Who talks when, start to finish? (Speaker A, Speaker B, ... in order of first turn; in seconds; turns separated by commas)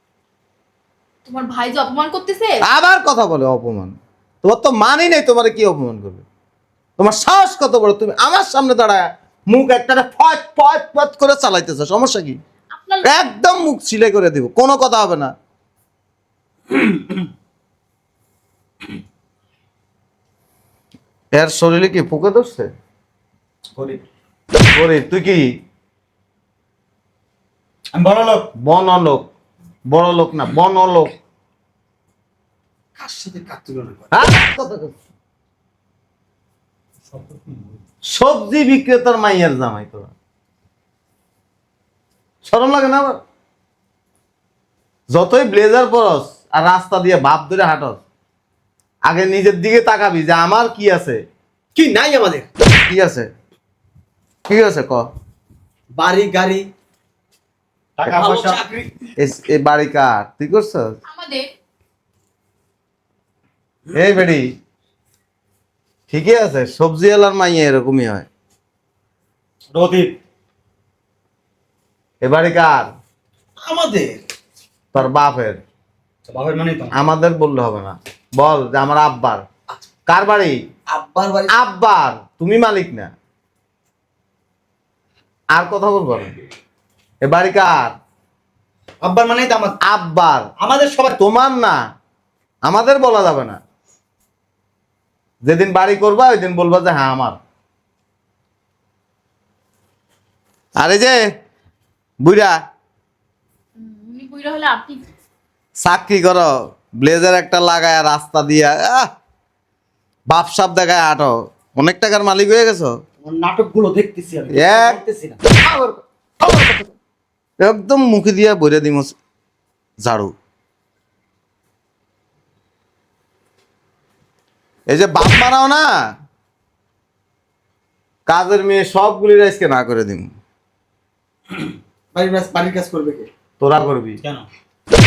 Speaker A: 1.2-2.6, Speaker B: 2.6-6.2, Speaker B: 7.0-12.4, Speaker A: 12.7-13.1, Speaker B: 13.0-15.3, Speaker B: 21.3-22.7, Speaker C: 23.8-24.0, Speaker B: 24.7-25.6, Speaker C: 27.9-28.5, Speaker B: 28.6-29.3, Speaker B: 29.9-31.1, Speaker D: 33.0-34.2, Speaker B: 34.1-34.9, Speaker B: 38.0-40.1, Speaker B: 42.4-43.2, Speaker B: 45.1-48.0, Speaker B: 49.0-51.2, Speaker D: 51.7-52.5, Speaker B: 52.9-53.3, Speaker B: 54.5-55.1, Speaker D: 55.9-56.6, Speaker C: 58.0-58.8, Speaker D: 58.1-58.8, Speaker B: 59.2-61.0, Speaker A: 61.1-61.5, Speaker B: 63.9-64.5, Speaker B: 66.1-68.3, Speaker C: 69.7-70.1, Speaker B: 72.2-72.9, Speaker D: 73.6-74.2, Speaker B: 74.9-75.6, Speaker C: 76.3-76.9, Speaker B: 76.9-79.5, Speaker B: 80.1-80.6, Speaker D: 80.9-81.5, Speaker B: 81.5-83.1, Speaker B: 85.5-86.3, Speaker B: 87.2-88.0, Speaker C: 89.0-89.8, Speaker B: 89.8-90.5, Speaker C: 90.6-91.1, Speaker B: 91.1-91.8, Speaker B: 92.6-93.6, Speaker B: 95.4-97.4, Speaker B: 100.8-101.2, Speaker B: 102.2-102.5, Speaker A: 103.8-105.0, Speaker B: 105.8-109.1, Speaker B: 110.3-113.0, Speaker D: 113.2-115.4, Speaker B: 114.5-115.0, Speaker B: 115.6-116.6, Speaker B: 117.6-119.2, Speaker B: 120.0-120.3, Speaker B: 124.9-125.9, Speaker B: 128.3-130.3, Speaker D: 132.1-133.3, Speaker B: 133.6-134.2